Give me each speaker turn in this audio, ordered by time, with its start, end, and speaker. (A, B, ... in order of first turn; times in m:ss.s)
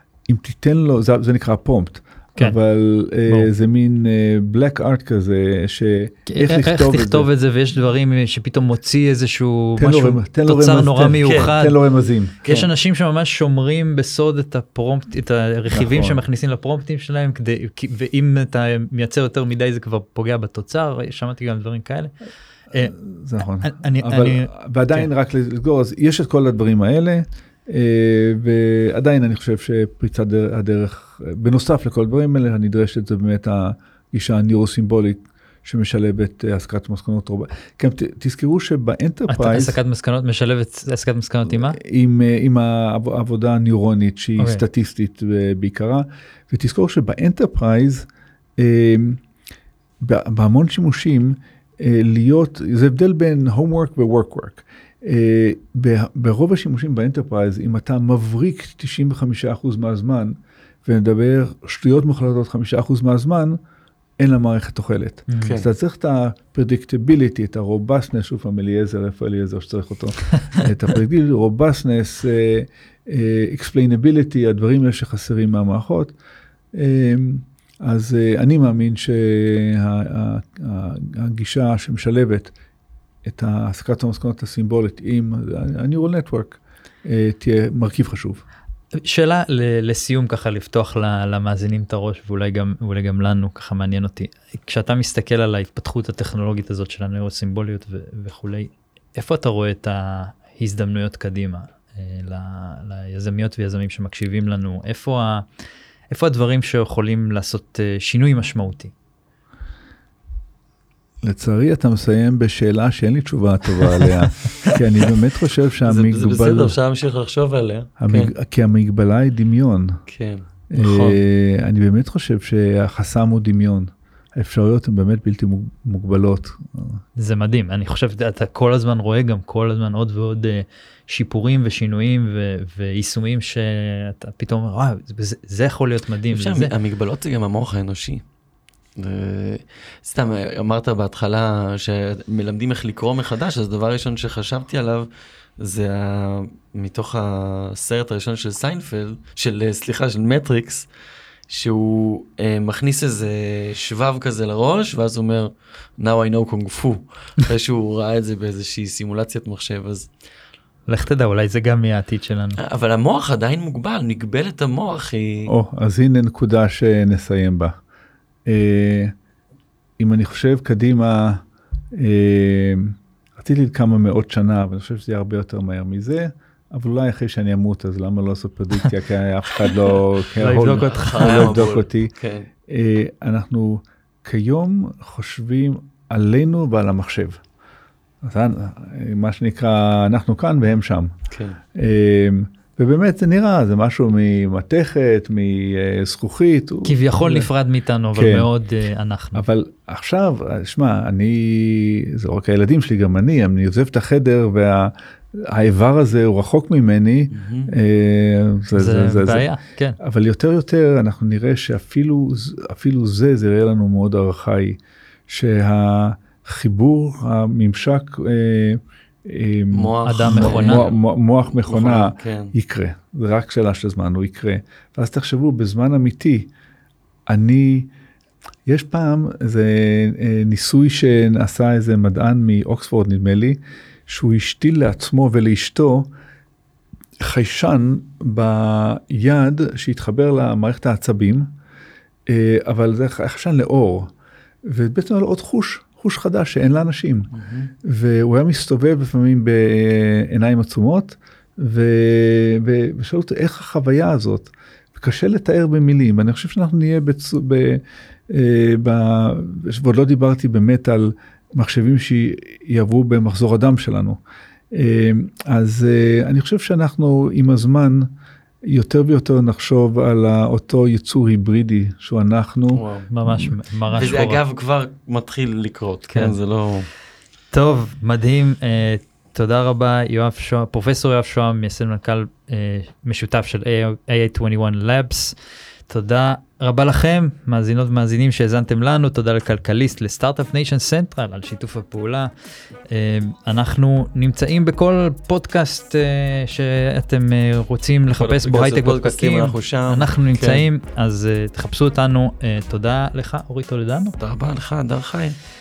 0:00.3-0:07.3 A
0:06.3-0:11.8 B
0:09.8-0:12.4 A
0:11.2-0:11.5 C
0:12.4-0:12.7 C
0:12.5-0:22.1 B
0:15.7-0:16.2 A
0:22.7-0:25.1 B
0:22.8-0:39.8 A
0:39.3-0:41.8 B
0:41.4-0:49.2 A
0:44.4-0:44.6 B
0:50.0-1:03.6 A
1:04.2-1:16.1 A
1:05.3-1:05.6 B
1:16.7-1:22.5 A
1:23.2-1:28.4 A
1:29.0-1:45.5 B
1:46.1-1:48.9 B
1:51.2-1:56.8 A
1:55.8-1:58.3 C
1:58.0-2:00.0 A
2:00.1-2:01.2 C
2:00.7-2:07.0 A
2:07.2-2:16.7 B
2:16.3-2:18.2 C
2:19.0-2:30.9 C
2:31.5-2:40.1 C
2:40.9-2:42.6 B
2:42.6-2:45.5 C
2:45.5-2:47.7 A
2:48.5-2:49.1 A
2:50.0-3:02.1 A
3:00.4-3:01.5 B
3:00.4-3:02.5 C
3:02.7-3:07.4 A
3:08.2-3:11.1 A
3:11.3-3:11.6 C
3:11.8-3:17.0 A
3:16.8-3:19.4 B
3:18.1-3:18.5 A
3:19.4-3:46.5 A
3:27.3-3:27.7 C
3:28.7-3:30.0 B
3:39.7-3:42.5 C
3:40.0-3:40.8 B
3:47.3-3:47.9 A
3:48.7-3:56.1 A
3:57.2-4:01.5 A
4:02.3-4:04.1 A
4:04.6-4:07.3 A
4:07.4-4:07.7 C
4:07.8-4:24.2 A
4:24.7-4:28.1 A
4:28.6-4:33.5 A
4:32.7-4:33.1 C
4:33.1-4:34.4 B
4:33.9-4:36.9 C
4:37.5-4:45.4 B
4:45.9-4:52.3 B
4:52.9-5:04.2 B
4:58.2-5:00.7 C
5:04.2-5:05.4 C